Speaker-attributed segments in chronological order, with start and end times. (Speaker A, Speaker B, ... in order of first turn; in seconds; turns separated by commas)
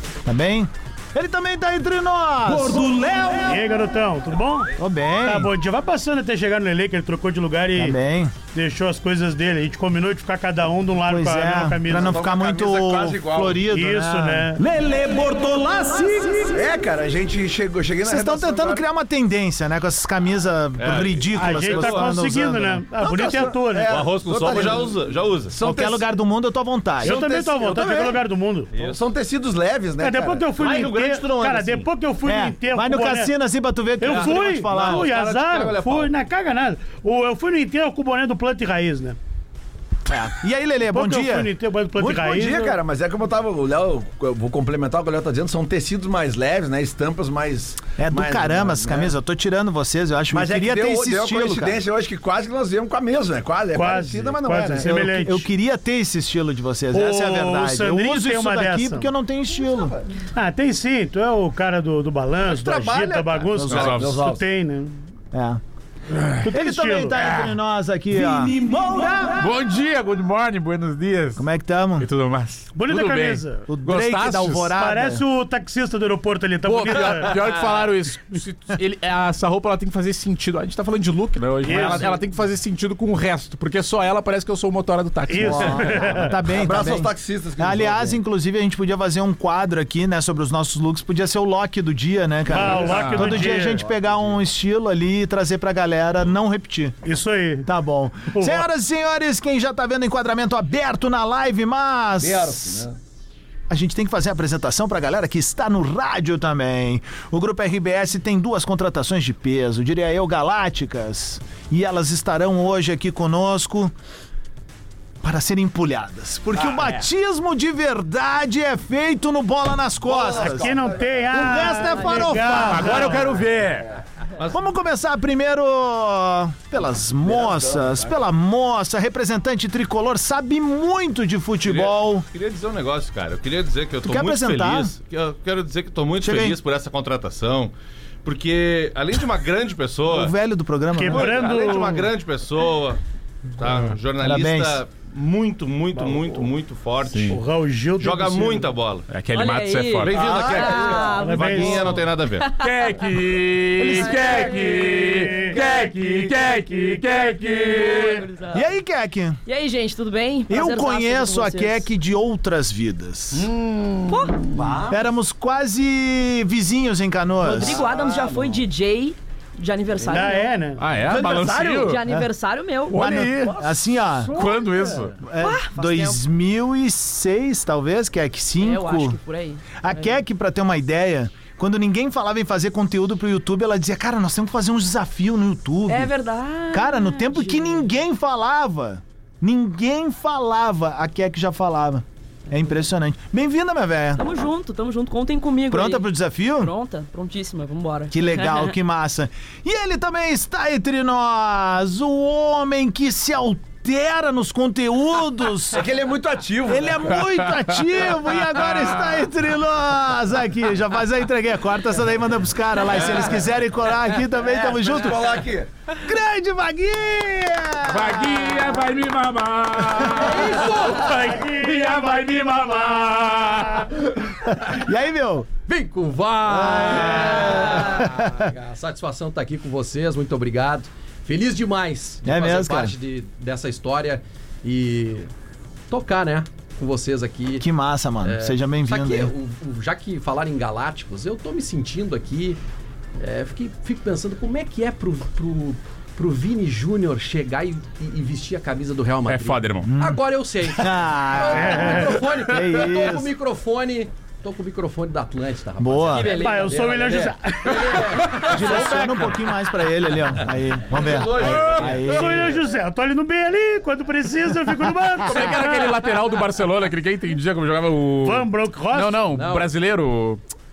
Speaker A: 0.2-3.6, Speaker B: 3.5-4.7, Speaker A: 4.8-5.5, Speaker B: 5.2-8.0, Speaker A: 7.8-8.3, Speaker B: 8.5-12.2, Speaker A: 11.1-16.7, Speaker C: 11.8-13.7, Speaker B: 13.7-14.6, Speaker C: 16.5-18.8, Speaker A: 18.0-23.3, Speaker D: 20.8-22.1, Speaker B: 21.3-23.9, Speaker C: 23.0-25.0, Speaker D: 23.9-25.5, Speaker C: 25.5-26.0, Speaker A: 25.6-27.2, Speaker C: 27.0-28.2, Speaker B: 27.0-28.7, Speaker D: 28.7-29.0, Speaker C: 28.8-30.6, Speaker B: 30.0-33.3, Speaker D: 30.6-31.9, Speaker A: 32.3-35.1, Speaker B: 34.0-39.2, Speaker D: 34.0-36.1, Speaker A: 40.1-41.5, Speaker B: 40.9-42.8, Speaker C: 42.0-49.1, Speaker A: 48.0-51.8, Speaker C: 50.3-55.0, Speaker B: 53.7-55.5, Speaker A: 54.8-60.0, Speaker B: 56.9-59.1, Speaker C: 59.7-60.0, Speaker B: 60.3-65.0, Speaker C: 62.5-64.4, Speaker A: 63.5-64.0, Speaker E: 63.7-64.3, Speaker A: 65.3-65.6, Speaker B: 66.4-67.1, Speaker A: 66.4-69.5, Speaker E: 67.2-67.5, Speaker C: 68.2-69.3, Speaker E: 69.3-71.4, Speaker A: 71.4-72.1, Speaker E: 72.0-74.7, Speaker B: 72.7-73.7, Speaker A: 73.7-75.2, Speaker B: 74.7-77.5, Speaker E: 76.6-85.8, Speaker B: 81.6-82.2, Speaker A: 81.7-82.1, Speaker B: 85.3-86.4, Speaker A: 85.4-97.0, Speaker C: 85.5-88.2, Speaker B: 92.5-93.8, Speaker C: 92.5-94.4, Speaker E: 92.8-93.5, Speaker B: 97.0-97.7, Speaker A: 97.7-102.8, Speaker B: 98.3-98.7, Speaker C: 102.2-103.0, Speaker A: 103.7-113.9, Speaker A: 115.2-120.8, Speaker C: 116.6-117.0, Speaker C: 120.0-121.3, Speaker B: 120.5-123.4, Speaker A: 121.3-123.3, Speaker E: 122.7-124.0, Speaker A: 124.5-132.3, Speaker C: 127.2-128.1, Speaker D: 131.7-140.3, Speaker A: 134.0-134.9, Speaker A: 136.2-136.6, Speaker A: 140.1-141.5, Speaker B: 140.9-142.1, Speaker D: 141.1-143.0, Speaker D: 143.6-147.4, Speaker A: 144.2-144.8, Speaker B: 147.3-148.7, Speaker D: 148.0-149.1, Speaker E: 149.1-150.3, Speaker F: 149.3-153.1, Speaker D: 150.0-152.5, Speaker C: 150.2-151.2, Speaker B: 151.1-151.9, Speaker E: 152.6-158.2, Speaker A: 153.8-154.5, Speaker F: 153.8-155.6, Speaker B: 155.0-155.6, Speaker F: 157.6-158.7, Speaker A: 158.5-159.4, Speaker F: 159.5-161.9, Speaker A: 160.5-163.5, Speaker E: 163.4-164.2, Speaker F: 164.1-164.4, Speaker C: 164.5-165.0, Speaker A: 164.9-167.8, Speaker F: 167.4-170.6, Speaker C: 167.6-168.6, Speaker B: 170.0-170.9, Speaker E: 170.8-172.0, Speaker C: 171.0-172.0, Speaker F: 171.8-173.8, Speaker E: 172.9-173.5, Speaker A: 172.9-174.4, Speaker E: 174.3-175.2, Speaker F: 174.4-176.2, Speaker A: 175.2-179.2, Speaker F: 178.6-180.2, Speaker A: 179.8-186.1, Speaker F: 185.9-188.0, Speaker A: 186.7-194.2, Speaker F: 194.2-198.8, Speaker A: 195.7-196.7, Speaker A: 198.1-205.8, Speaker C: 205.7-207.2, Speaker A: 206.7-215.4, Speaker C: 214.5-215.7, Speaker A: 216.0-218.4, Speaker E: 217.9-224.1, Speaker G: 220.2-221.2, Speaker B: 221.1-222.0, Speaker A: 224.5-225.5, Speaker G: 225.7-235.3, Speaker A: 226.5-228.5, Speaker A: 232.2-232.9, Speaker G: 235.9-237.7, Speaker A: 237.6-239.3, Speaker G: 238.2-242.6, Speaker G: 243.2-259.0, Speaker E: 249.3-249.9, Speaker A: 249.8-253.3, Speaker B: 251.5-252.3, Speaker A: 255.8-256.4, Speaker B: 256.2-258.3, Speaker F: 256.3-256.8, Speaker E: 258.3-259.4, Speaker A: 258.4-262.6, Speaker D: 260.9-262.1, Speaker G: 261.2-261.7, Speaker E: 261.7-261.9, Speaker B: 262.1-266.1, Speaker E: 265.2-270.4, Speaker B: 268.2-269.3, Speaker G: 269.3-269.7